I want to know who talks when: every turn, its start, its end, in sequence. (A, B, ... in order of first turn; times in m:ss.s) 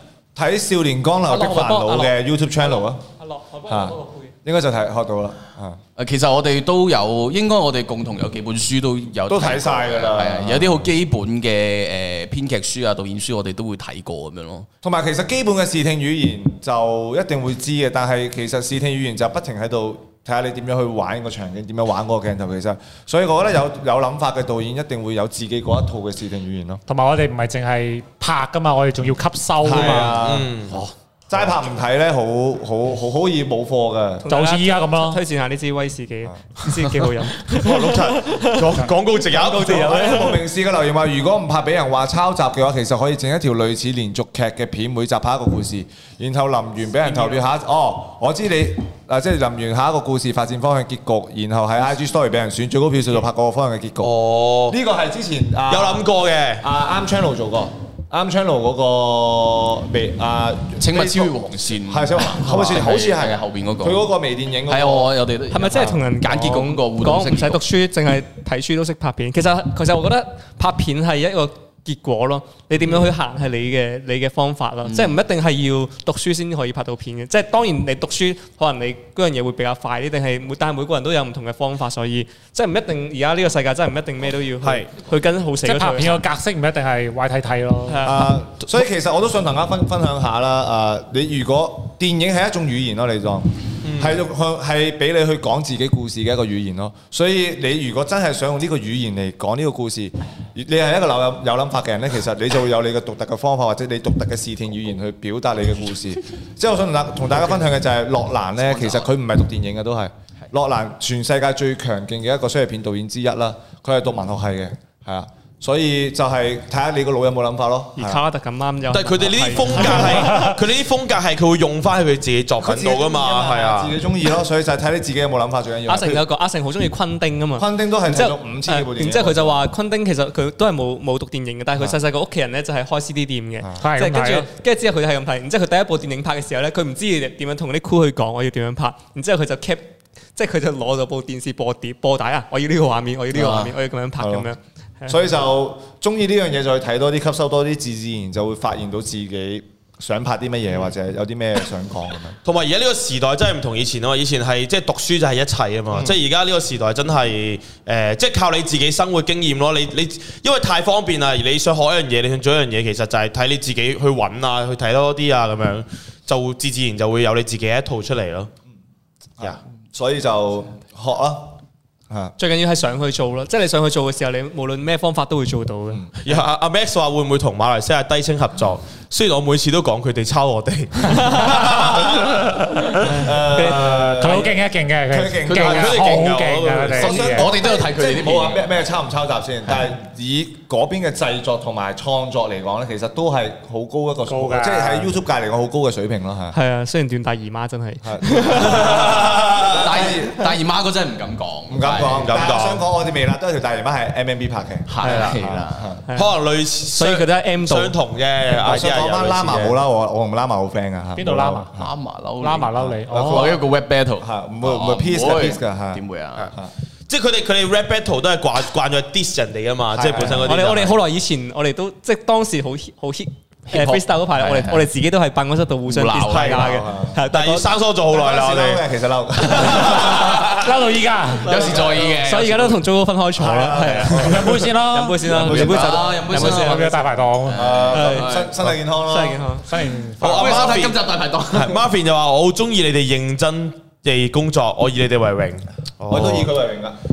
0:00.4-0:03.0 A
0:01.3-0:04.3 B
0:03.7-0:05.8 A
0:06.0-0:14.7 C
0:09.3-0:10.9 A
0:14.8-0:26.8 A
0:26.9-0:30.8 D
0:29.6-0:34.3 A
0:29.7-0:30.8 E
0:34.2-0:40.4 B
0:34.3-0:35.2 D
0:37.5-0:40.2 E
0:39.5-0:54.1 A
0:47.0-0:47.4 B
0:54.0-0:54.8 E
0:54.7-0:56.1 A
0:55.7-0:56.7 E
0:56.6-1:05.1 A
1:00.8-1:04.1 C
1:04.7-1:07.6 C
1:05.5-1:26.2 B
1:05.7-1:06.0 A
1:14.8-1:15.2 C
1:24.6-1:24.9 E
1:25.6-1:28.1 D
1:27.9-1:28.3 B
1:28.0-1:58.2 A
1:33.8-1:34.3 E
1:48.6-1:49.1 C
1:58.0-2:00.5 B
1:58.9-2:04.0 E
2:02.6-2:06.2 A
2:05.9-2:25.2 B
2:07.6-2:09.6 A
2:13.8-2:14.5 D
2:23.3-2:23.7 C
2:24.2-2:24.5 A
2:25.1-2:32.4 A
2:32.4-2:48.5 E
2:49.4-2:51.6 A
2:52.4-2:56.1 B
2:56.2-3:02.6 E
3:01.2-3:01.6 B
3:03.0-3:03.9 B
3:03.0-3:06.1 A
3:03.4-3:07.5 D
3:05.5-3:06.3 C
3:05.5-3:07.4 E
3:06.9-3:16.6 A
3:07.0-3:08.7 C
3:14.3-3:15.1 D
3:16.5-3:19.0 B
3:18.0-3:20.5 A
3:18.6-3:19.9 E
3:18.8-3:22.4 C
3:21.7-3:26.0 A
3:22.0-3:22.8 E
3:24.9-3:26.0 C
3:25.0-3:25.4 B
3:26.1-3:26.3 B
3:26.2-3:29.8 E
3:26.9-3:28.0 B
3:28.5-3:31.9 A
3:31.2-3:31.7 D
3:31.8-3:36.5 C
3:32.4-3:33.5 D
3:32.8-3:36.7 A
3:37.1-3:41.0 E
3:39.9-3:40.6 A
3:40.3-3:47.7 B
3:43.7-3:44.9 C
3:45.9-3:46.7 C
3:46.3-3:46.7 E
3:46.6-3:47.2 A
3:47.3-3:48.9 E
3:48.1-3:50.6 A
3:49.5-3:50.4 E
3:49.8-3:50.4 C
3:50.3-3:51.6 D
3:51.4-3:57.1 B
3:51.4-3:52.8 C
3:53.4-3:54.7 A
3:53.9-3:54.4 E
3:54.2-3:55.4 D
3:55.3-3:56.2 A
3:55.3-3:58.6 C
3:56.3-3:57.8 D
3:57.6-3:59.6 A
3:57.9-3:59.7 B
3:59.6-4:00.5 D
4:00.2-4:06.6 E
4:00.2-4:01.8 C
4:06.1-4:07.0 A